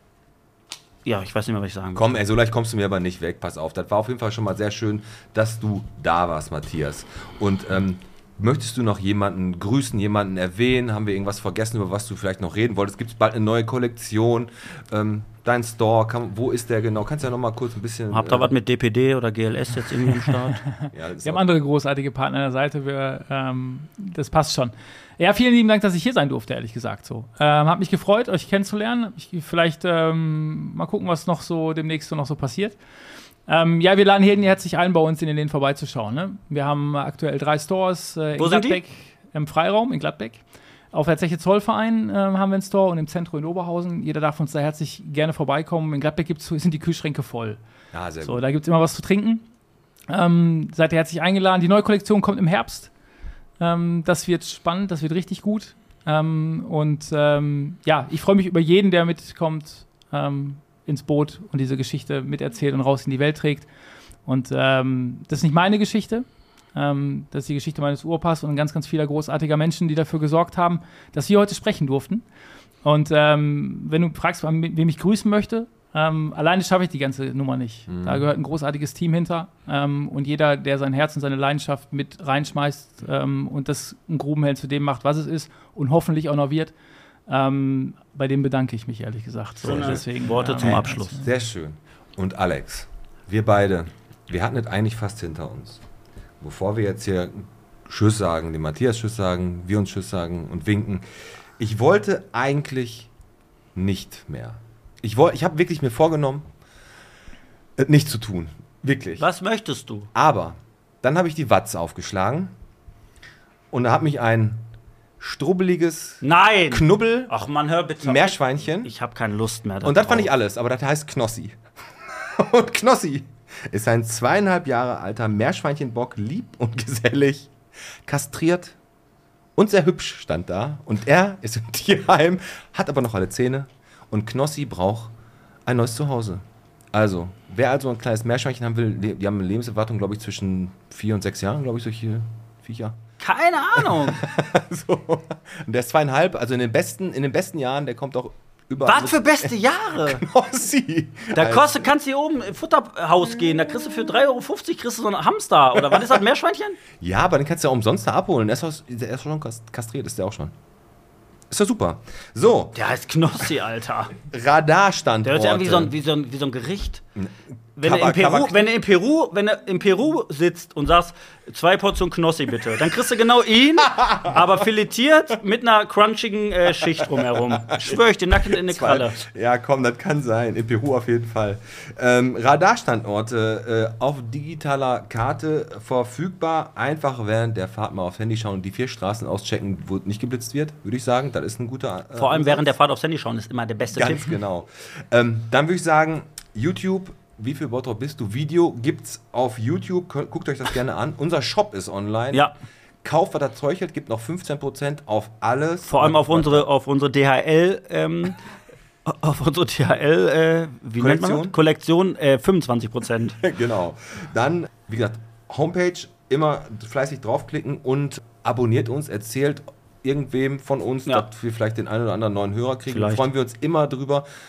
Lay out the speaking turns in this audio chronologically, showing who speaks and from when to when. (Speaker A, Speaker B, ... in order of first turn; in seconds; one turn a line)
Speaker A: 1.0-2.2
Speaker B: 1.9-18.5
Speaker A: 18.1-20.6
Speaker C: 20.6-32.8
Speaker B: 20.9-21.5
Speaker C: 33.5-40.4
Speaker A: 38.3-38.8
Speaker C: 40.9-47.6
Speaker B: 47.9-48.4
Speaker C: 48.2-49.4
Speaker C: 50.1-52.9
Speaker C: 53.6-63.7
Speaker C: 64.2-72.2
Speaker C: 72.8-86.7
Speaker B: 77.9-78.3
Speaker C: 87.3-91.3
Speaker A: 89.6-91.2
Speaker B: 89.7-90.0
Speaker B: 90.6-95.8
Speaker B: 96.4-101.0
Speaker B: 101.6-103.1
Speaker B: 103.7-106.5
Speaker B: 107.8-109.2
Speaker A: 109.2-110.1
Speaker B: 110.1-112.5
Speaker B: 113.7-114.6
Speaker B: 115.2-117.3
Speaker A: 116.2-120.3
Speaker B: 118.0-118.9
Speaker B: 119.8-127.5
Speaker B: 128.1-128.8
Speaker B: 129.6-135.1
Speaker B: 135.7-143.0
Speaker A: 143.2-144.3
Speaker B: 143.8-151.8
Speaker A: 148.8-150.2
Speaker A: 151.3-156.8
Speaker B: 156.9-160.5
Speaker B: 161.5-162.8
Speaker A: 162.7-164.1
Speaker B: 164.3-165.9
Speaker A: 165.2-167.0
Speaker B: 167.2-168.6
Speaker A: 167.8-179.2
Speaker B: 173.8-174.4
Speaker B: 177.1-192.8
Speaker A: 192.1-194.3
Speaker B: 193.9-202.5
Speaker B: 203.0-206.7
Speaker A: 205.8-208.4
Speaker A: 209.0-213.4
Speaker B: 211.0-211.6
Speaker B: 213.4-224.2
Speaker A: 222.9-223.2